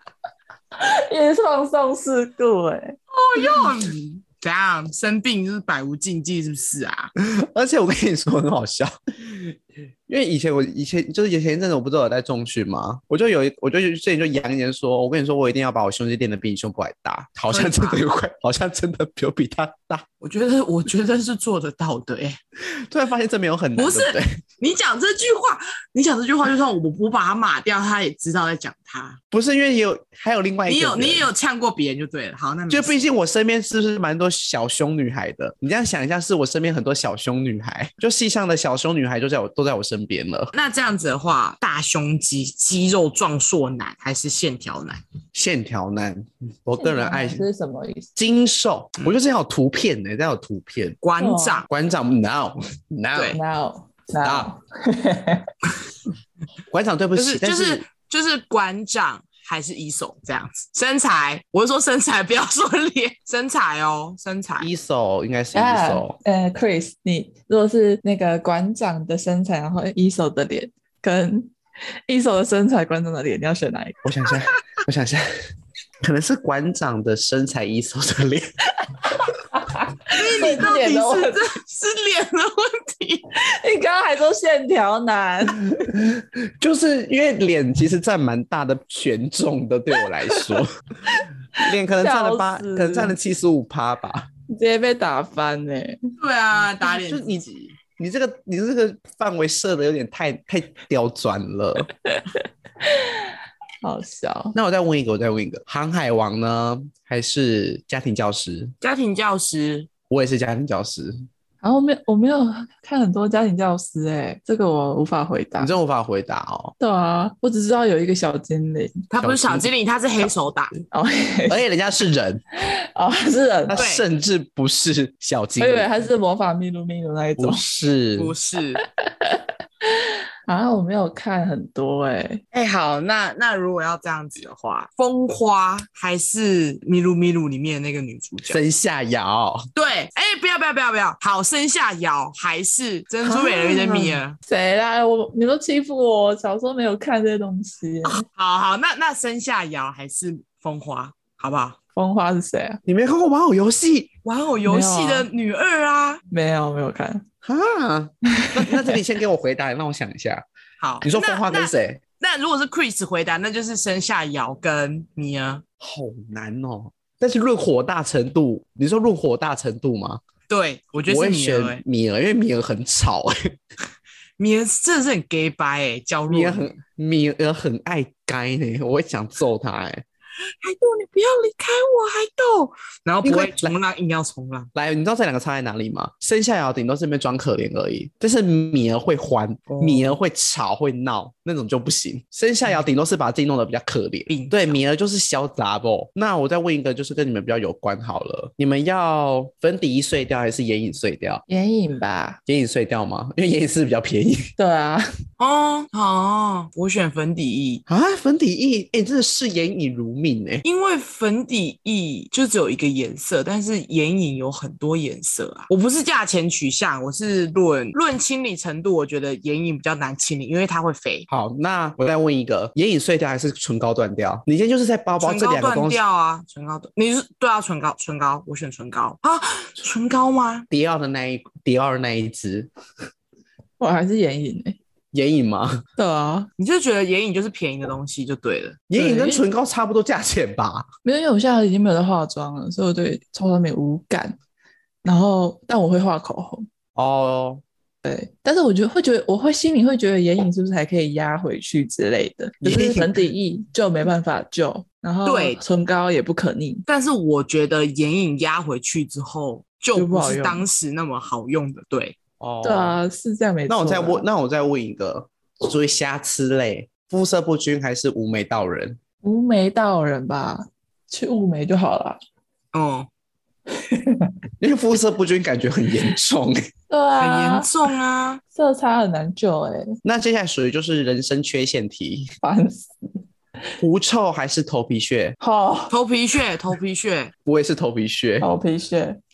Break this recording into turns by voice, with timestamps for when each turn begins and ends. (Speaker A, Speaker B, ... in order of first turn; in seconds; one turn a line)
Speaker A: 0.8-3.0
Speaker B: 3.1-7.1
Speaker C: 7.2-20.0
Speaker B: 17.5-18.0
Speaker B: 20.2-22.4
Speaker C: 22.7-24.3
Speaker B: 23.8-29.2
Speaker C: 29.3-31.3
Speaker B: 30.7-33.0
Speaker C: 32.7-40.5
Speaker B: 40.5-45.0
Speaker C: 45.3-47.4
Speaker A: 46.8-48.1
Speaker C: 48.1-51.0
Speaker B: 51.0-51.7
Speaker A: 51.2-51.6
Speaker C: 51.7-53.4
Speaker A: 53.3-55.5
Speaker C: 54.2-54.5
Speaker C: 56.7-57.8
Speaker B: 57.1-64.7
Speaker C: 64.6-66.2
Speaker A: 65.5-71.5
Speaker A: 72.1-74.0
Speaker C: 74.0-75.3
Speaker C: 76.0-78.5
Speaker A: 79.5-81.5
Speaker B: 80.1-83.2
Speaker A: 83.3-85.9
Speaker C: 85.8-90.7
Speaker C: 91.5-94.3
Speaker A: 91.6-93.2
Speaker A: 94.5-96.0
Speaker B: 96.2-97.8
Speaker C: 97.0-101.9
Speaker A: 102.0-104.5
Speaker C: 104.5-108.7
Speaker B: 108.8-109.9
Speaker C: 110.1-111.1
Speaker A: 111.6-115.7
Speaker C: 115.6-116.7
Speaker A: 116.8-119.0
Speaker B: 119.1-120.7
Speaker C: 119.2-119.7
Speaker A: 120.9-121.6
Speaker C: 121.5-122.4
Speaker A: 122.7-123.8
Speaker C: 123.7-125.9
Speaker B: 123.7-124.0
Speaker A: 125.6-127.6
Speaker C: 127.4-128.3
Speaker B: 128.2-128.8
Speaker A: 129.2-132.4
Speaker B: 132.5-138.6
Speaker C: 138.5-139.6
Speaker B: 139.7-144.4
Speaker A: 143.2-148.2
Speaker B: 148.0-151.8
Speaker A: 151.9-152.8
Speaker C: 152.8-154.1
Speaker B: 154.2-156.2
Speaker A: 154.6-155.3
Speaker A: 156.3-157.2
Speaker C: 157.4-160.4
Speaker A: 158.3-159.0
Speaker B: 160.8-165.6
Speaker C: 161.0-162.0
Speaker C: 165.8-170.2
Speaker B: 170.5-171.8
Speaker C: 171.1-173.5
Speaker B: 174.4-176.7
Speaker C: 176.3-180.0
Speaker B: 180.6-184.7
Speaker C: 183.2-183.7
Speaker C: 184.7-201.4
Speaker B: 189.7-190.2
Speaker B: 194.3-194.8
Speaker A: 201.5-202.4
Speaker C: 202.4-204.5
Speaker A: 204.6-205.0
Speaker B: 205.4-207.8
Speaker C: 207.9-210.6
Speaker B: 210.6-221.3
Speaker C: 221.3-226.0
Speaker B: 225.2-230.7
Speaker C: 230.7-232.7
Speaker A: 233.8-234.8
Speaker C: 235.1-235.8
Speaker A: 236.0-236.5
Speaker B: 236.6-239.4
Speaker C: 238.9-240.9
Speaker A: 241.0-244.4
Speaker A: 245.0-246.7
Speaker C: 246.9-247.6
Speaker A: 248.0-256.8
Speaker C: 252.6-253.1
Speaker B: 255.2-255.6
Speaker B: 256.9-262.1
Speaker A: 259.9-260.6
Speaker C: 262.4-263.0
Speaker A: 262.6-264.2
Speaker C: 263.7-269.0
Speaker A: 269.2-272.2
Speaker B: 272.7-273.1
Speaker A: 273.8-274.3
Speaker C: 274.6-276.7
Speaker A: 276.9-277.7
Speaker B: 277.2-278.4
Speaker A: 278.5-279.9
Speaker C: 280.0-282.3
Speaker A: 282.4-282.9
Speaker C: 283.8-285.4
Speaker A: 285.4-285.9
Speaker B: 285.9-287.3
Speaker C: 287.4-288.5
Speaker A: 288.4-289.2